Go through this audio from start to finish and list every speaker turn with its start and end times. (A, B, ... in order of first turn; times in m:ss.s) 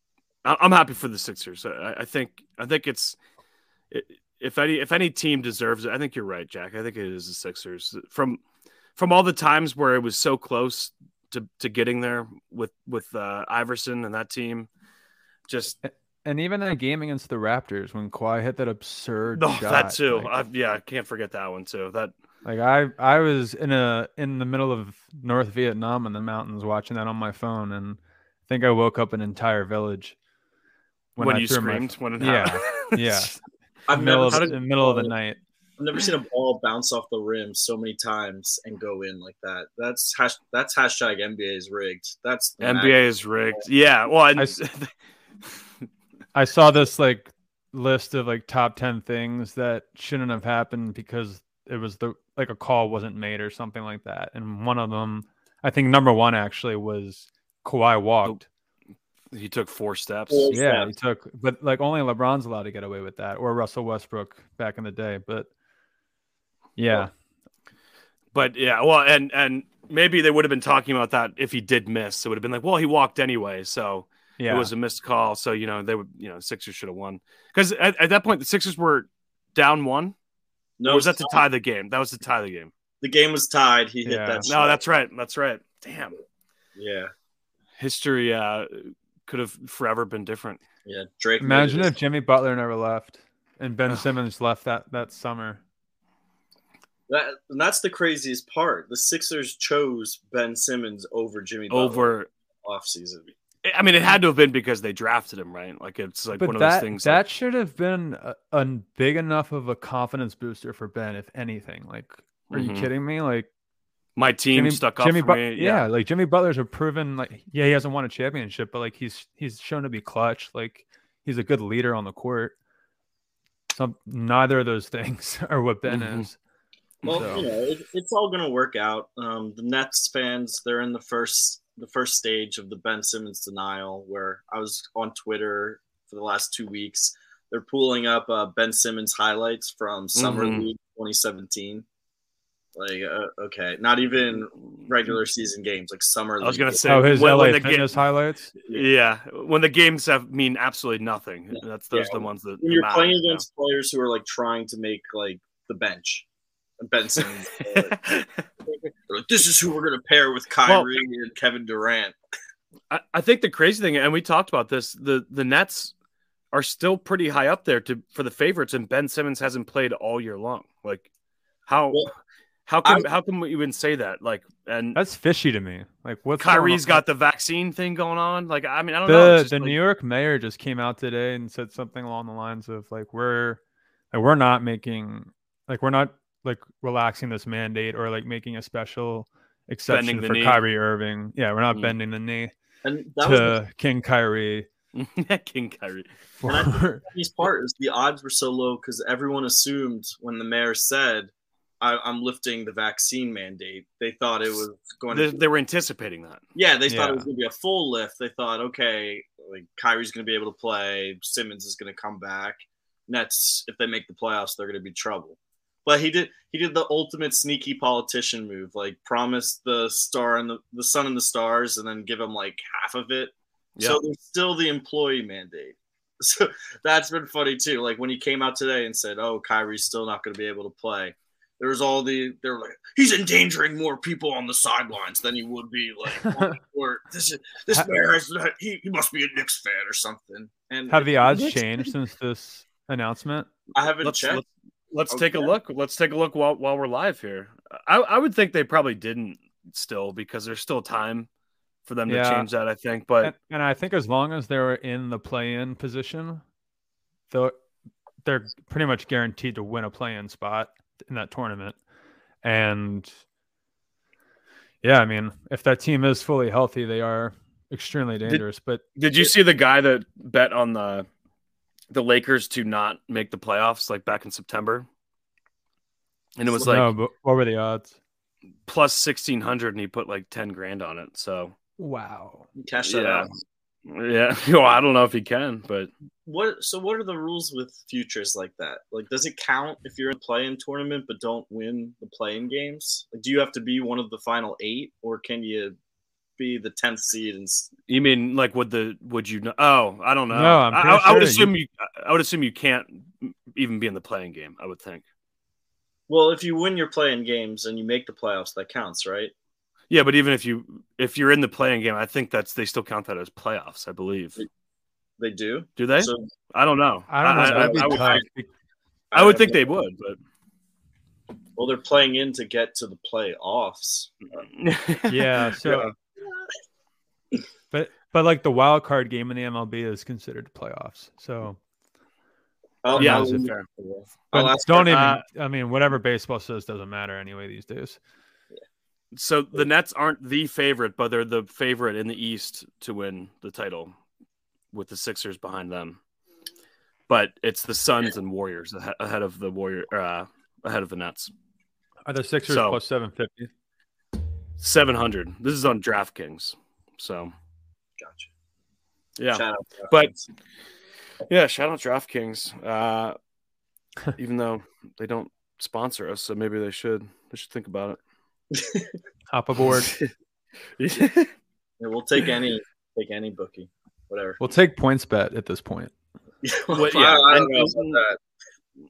0:00.4-0:03.2 A
0:03.9-0:08.4 A
0:09.0-0:14.7 A
0:15.5-0:15.8 A
0:15.8-0:20.3 B
0:19.3-0:22.1 A
0:22.4-0:30.2 B
0:31.2-0:33.4 B
0:31.2-0:33.3 A
0:33.9-0:35.1 C
0:33.9-0:35.4 B
0:35.8-0:43.0 C
0:42.6-0:44.9 A
0:46.3-0:58.5 B
0:59.3-1:00.5 A
1:00.3-1:00.9 C
1:00.5-1:05.5 B
1:06.8-1:07.1 B
1:08.3-1:20.2 A
1:14.4-1:14.7 B
1:20.8-1:21.4 C
1:20.8-1:22.7 A
1:23.0-1:24.8 C
1:24.0-1:24.5 B
1:24.4-1:26.2 A
1:26.8-1:27.1 C
1:27.8-1:30.6 A
1:30.8-1:32.0 C
1:31.4-1:35.6 B
1:37.1-1:43.3 C
1:41.7-1:42.3 A
1:43.6-1:47.2 A
1:46.3-1:53.5 B
1:52.5-1:52.9 A
1:54.2-1:55.8 A
1:54.5-2:02.5 B
2:03.7-2:06.4 B
2:05.9-2:06.3 A
2:07.1-2:21.9 C
2:07.1-2:07.5 B
2:20.2-2:20.7 A
2:22.8-2:26.9 C
2:26.4-2:28.0 A
2:26.9-2:28.5 B
2:28.7-2:33.4 A
2:31.5-2:36.3 C
2:36.8-2:38.0 C
2:37.6-2:38.4 A
2:38.7-2:42.2 C
2:42.9-2:45.9 A
2:46.5-2:51.1 A
2:51.7-2:52.1 A
2:52.7-2:55.0 A
2:55.0-2:57.0 B
2:56.4-2:59.8 A
2:59.1-3:03.6 B
3:04.1-3:12.5 B
3:09.9-3:10.6 A
3:12.8-3:13.6 C
3:13.2-3:14.7 B
3:14.9-3:16.1 A
3:16.4-3:17.0 B
3:16.4-3:25.4 C
3:25.1-3:26.4 A
3:26.6-4:01.6 C
3:26.9-3:27.2 B
4:00.9-4:03.5 B
4:03.8-4:04.4 C
4:04.0-4:11.3 A
4:05.1-4:05.5 C
4:11.9-4:13.3 A
4:12.1-4:12.5 B
4:13.2-4:16.4 B
4:18.2-4:21.8 B
4:22.4-4:23.1 B
4:24.8-4:28.8 B
4:29.0-4:31.1 A
4:31.9-4:34.9 A
4:36.4-4:36.9 A
4:36.6-4:38.0 B
4:38.7-4:41.6 A
4:41.8-4:42.5 B
4:42.6-4:43.3 C
4:42.8-4:43.3 A
4:43.9-4:45.9 A
4:46.3-4:55.8 C
4:56.4-4:57.7 C
4:57.9-5:05.0 A
5:00.3-5:01.5 B
5:06.1-5:09.3 C
5:09.9-5:14.4 A
5:15.2-5:16.3 C
5:15.8-5:18.2 A
5:17.1-5:18.5 B
5:17.3-5:18.2 C
5:19.1-5:19.7 C
5:19.1-5:20.2 A
5:21.6-5:24.1 C
5:24.4-5:25.8 A
5:25.1-5:25.9 B
5:27.7-5:31.6 B
5:32.8-5:35.0 C
5:32.9-5:33.5 B
5:33.0-5:33.7 A
5:34.3-5:38.0 B
5:34.8-5:35.2 A
5:39.1-5:44.0 A
5:44.7-5:46.0 A
5:47.1-5:51.3 A
5:52.1-5:53.5 B
5:52.5-5:52.8 A
5:54.6-5:57.3 A
5:58.0-5:58.3 C
5:59.2-6:00.1 A
5:59.3-6:00.2 C
6:01.3-6:03.2 A
6:04.2-6:08.0 A
6:08.5-6:09.0 C
6:09.3-6:09.9 B
6:09.6-6:10.1 A
6:10.8-6:11.3 A
6:11.8-6:14.4 C
6:14.4-6:15.9 B
6:16.4-6:18.2 C
6:16.7-6:18.0 A